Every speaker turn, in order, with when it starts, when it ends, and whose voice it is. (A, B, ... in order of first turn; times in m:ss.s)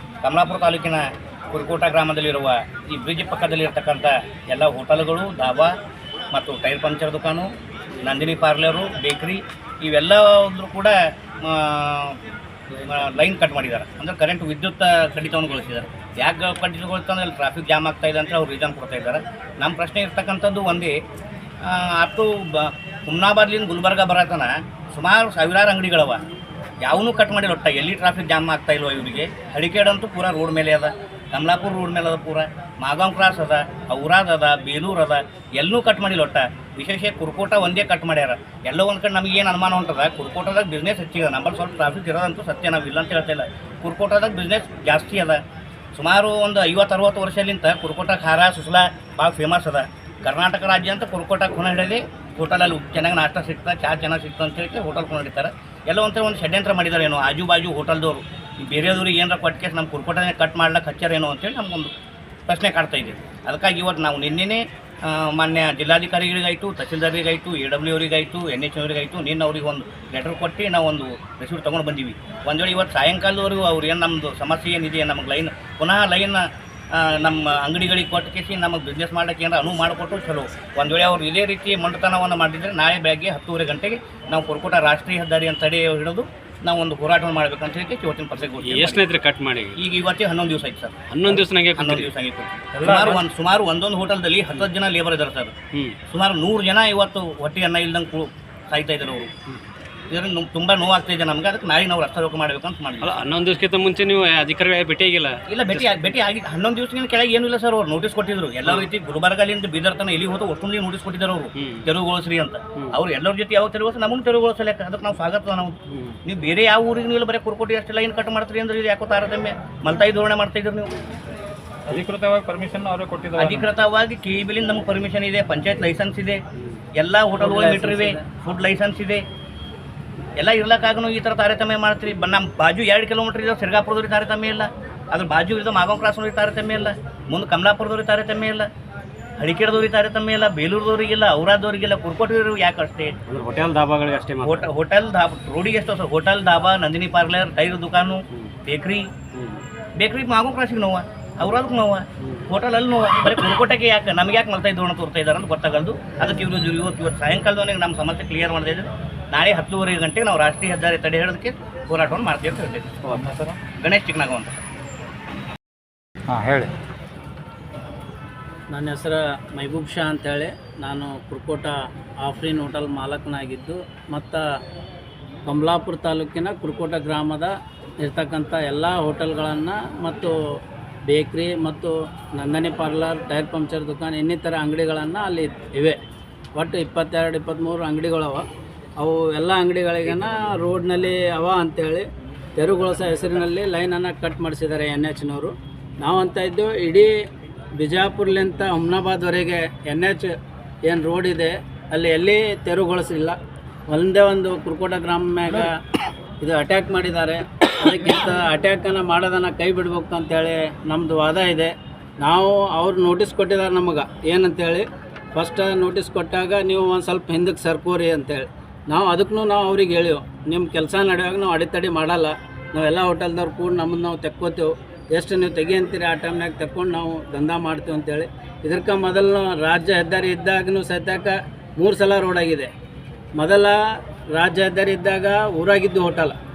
0:00.2-0:05.8 A
0:06.3-0:07.5 A
0:08.0-0:12.2 A
0:12.8-0:21.0 A
0:21.6-0:26.2 A
0:26.8-0:45.4 A
0:45.9-1:01.9 A
1:02.5-1:29.0 A
1:28.6-1:29.8 B
1:29.8-1:35.5 A
1:31.1-1:32.1 B
1:32.8-1:33.2 C
1:36.1-1:39.3 A
1:40.1-1:43.2 A
1:43.0-1:46.1 B
1:45.5-2:00.9 A
1:51.6-1:51.9 B
1:55.9-1:56.2 B
2:01.8-2:03.7 C
2:03.4-2:06.4 A
2:07.0-2:09.2 A
2:07.4-2:08.2 B
2:10.4-2:18.7 A
2:19.4-2:23.2 A
2:23.2-2:24.6 B
2:24.4-2:29.1 A
2:29.3-2:29.6 B
2:30.0-2:43.0 A
2:43.0-2:43.6 C
2:43.8-2:44.6 A
2:46.3-2:46.7 C
2:48.7-2:54.4 D
2:55.4-3:00.4 D
3:01.1-3:06.0 D
3:06.6-3:08.5 D
3:09.0-3:17.1 D
3:17.8-3:20.3 D
3:20.9-3:23.4 D
3:23.9-3:25.7 D
3:26.4-3:52.7 D
3:53.4-3:53.8 D
3:54.3-3:56.4 D